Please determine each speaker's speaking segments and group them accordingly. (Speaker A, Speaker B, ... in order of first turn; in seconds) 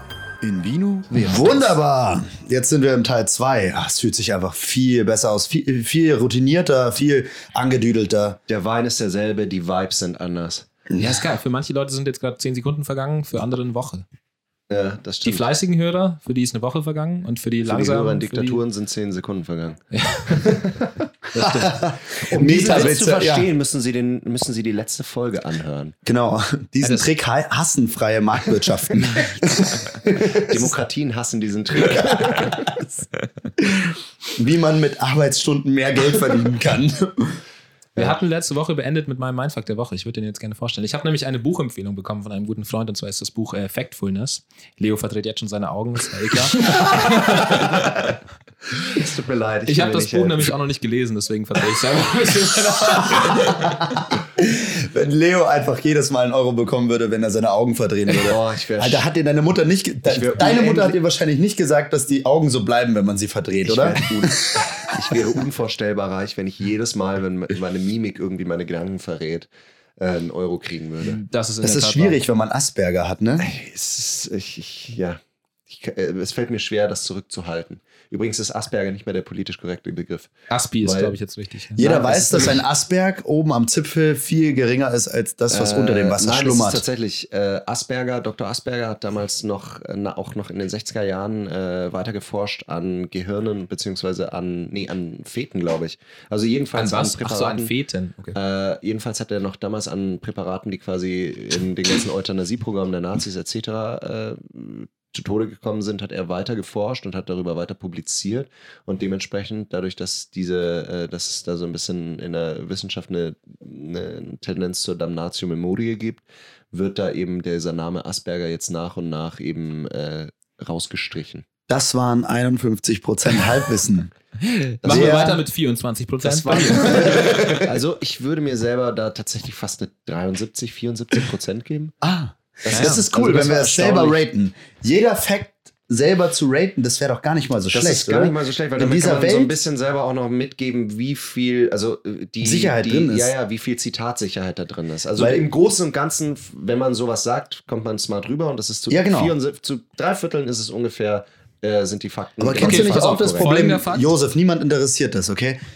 Speaker A: 0.4-8.4, 21.4-23.5, 26.1-30.8, 32.1-32.8, 33.6-37.4, 53.0-65.2, 71.6-73.5, 81.8-86.8, 121.7-124.1, 124.8-125.4, 126.5-127.6, 132.0-139.6, 142.4-143.3, 145.2-145.4, 148.9-149.3, 152.4-155.6
Speaker B: 8.5-10.7, 14.7-15.4, 17.6-19.8, 20.4-20.9, 22.2-26.0, 30.1-32.8, 48.9-50.5, 58.2-59.0, 60.1-61.0, 63.6-71.2, 73.4-81.2, 81.8-82.6, 85.5-97.7, 98.3-121.5, 124.8-125.3, 126.2-132.0, 132.7-133.2, 137.7-153.7
Speaker C: 11.0-14.1, 15.2-18.6, 19.9-20.7, 21.3-23.0, 26.8-27.1, 38.0-48.1, 49.7-54.0, 71.0-72.2, 80.5-81.8, 96.8-98.4, 124.4-127.5, 132.7-134.2, 152.6-154.1